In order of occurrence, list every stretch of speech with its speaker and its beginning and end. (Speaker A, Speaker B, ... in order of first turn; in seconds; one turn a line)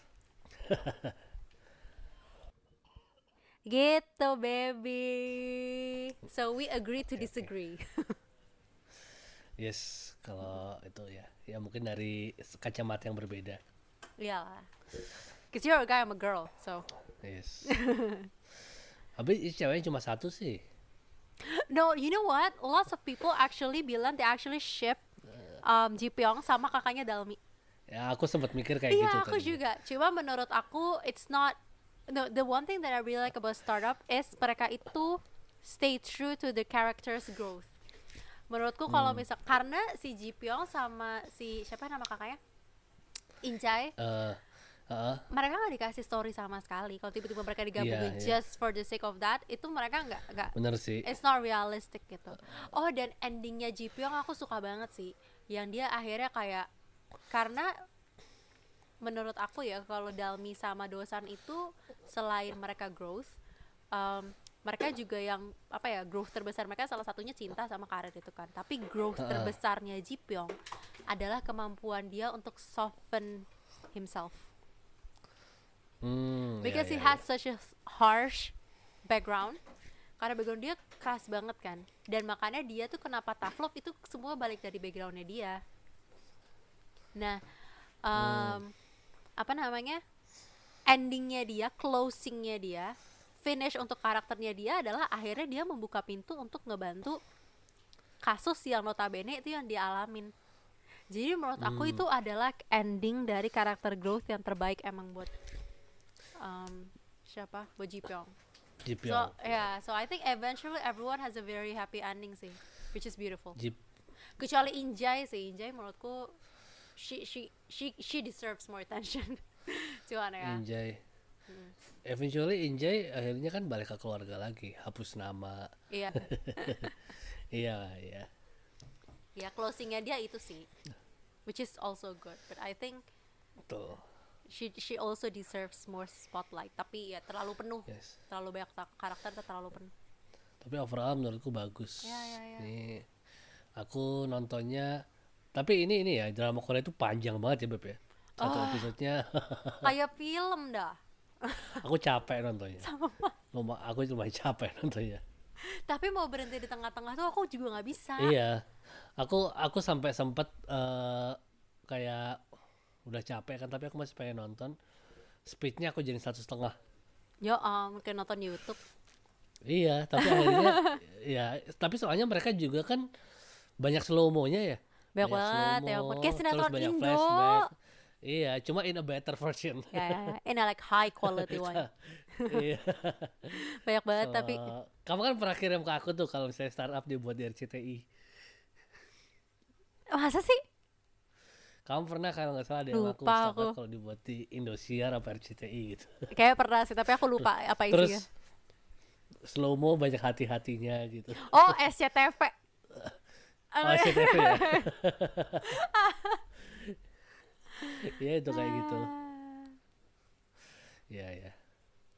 Speaker A: 0.6-1.2
Speaker B: 3.7-8.2
Speaker A: 7.2-7.4
Speaker A: 9.6-13.6
Speaker B: 14.2-14.7
Speaker B: 15.5-16.9
Speaker A: 17.2-17.7
Speaker B: 17.7-18.3
Speaker A: 19.2-20.6
Speaker B: 21.4-25.0
Speaker B: 25.6-27.4
Speaker A: 27.9-29.6
Speaker B: 28.9-31.6
Speaker B: 32.1-37.7
Speaker B: 38.5-42.4
Speaker A: 38.9-39.2
Speaker B: 43.4-43.9
Speaker A: 44.0-45.2
Speaker B: 45.3-56.7
Speaker A: 47.8-48.4
Speaker A: 50.5-51.0
Speaker B: 57.3-57.7
Speaker B: 59.0-63.4
Speaker B: 63.9-70.5
Speaker A: 69.2-69.5
Speaker B: 71.1-74.5
Speaker A: 76.0-77.2
Speaker B: 76.6-78.5
Speaker B: 79.1-79.6
Speaker B: 80.2-85.6
Speaker B: 87.2-87.4
Speaker B: 88.0-88.7
Speaker A: 88.2-88.6
Speaker B: 89.4-90.0
Speaker B: 90.9-97.2
Speaker B: 98.2-100.3
Speaker B: 101.1-105.3
Speaker A: 101.6-102.0
Speaker B: 106.4-108.3
Speaker A: 108.8-109.3
Speaker B: 109.0-113.6
Speaker B: 114.4-116.3
Speaker B: 117.0-120.6
Speaker A: 120.4-121.0
Speaker B: 121.5-121.7
Speaker A: 122.0-126.9
Speaker B: 125.9-126.9
Speaker A: 127.5-128.3
Speaker B: 129.4-130.7
Speaker B: 131.5-133.0
Speaker A: 133.7-134.0
Speaker B: 134.5-139.9
Speaker A: 137.9-138.2
Speaker A: 140.6-143.1
Speaker B: 142.0-142.7
Speaker A: 143.8-145.0
Speaker A: 145.5-149.9
Speaker B: 148.4-148.9
Speaker B: 149.8-151.8
Speaker A: 151.7-152.9
Speaker B: 152.8-153.3
Speaker A: 153.5-155.2
Speaker B: 155.7-158.3
Speaker A: 158.2-158.6
Speaker A: 159.2-161.4
Speaker A: 161.9-162.4
Speaker A: 163.1-164.7
Speaker A: 165.4-166.7
Speaker B: 167.4-168.8
Speaker A: 169.7-173.0
Speaker B: 170.2-171.0
Speaker A: 173.8-177.7
Speaker B: 175.2-177.7
Speaker A: 178.2-180.3
Speaker B: 179.9-182.6
Speaker A: 181.2-183.6
Speaker B: 183.6-184.7
Speaker A: 184.2-188.1
Speaker B: 190.1-190.6
Speaker A: 191.8-196.2
Speaker B: 192.9-193.8
Speaker B: 196.3-198.2
Speaker A: 197.9-198.2
Speaker A: 199.4-201.8
Speaker B: 201.4-202.5
Speaker B: 203.7-204.9
Speaker A: 203.8-205.8
Speaker B: 205.6-206.4
Speaker A: 206.7-207.0
Speaker B: 207.8-209.7
Speaker A: 208.0-209.1
Speaker A: 211.1-211.5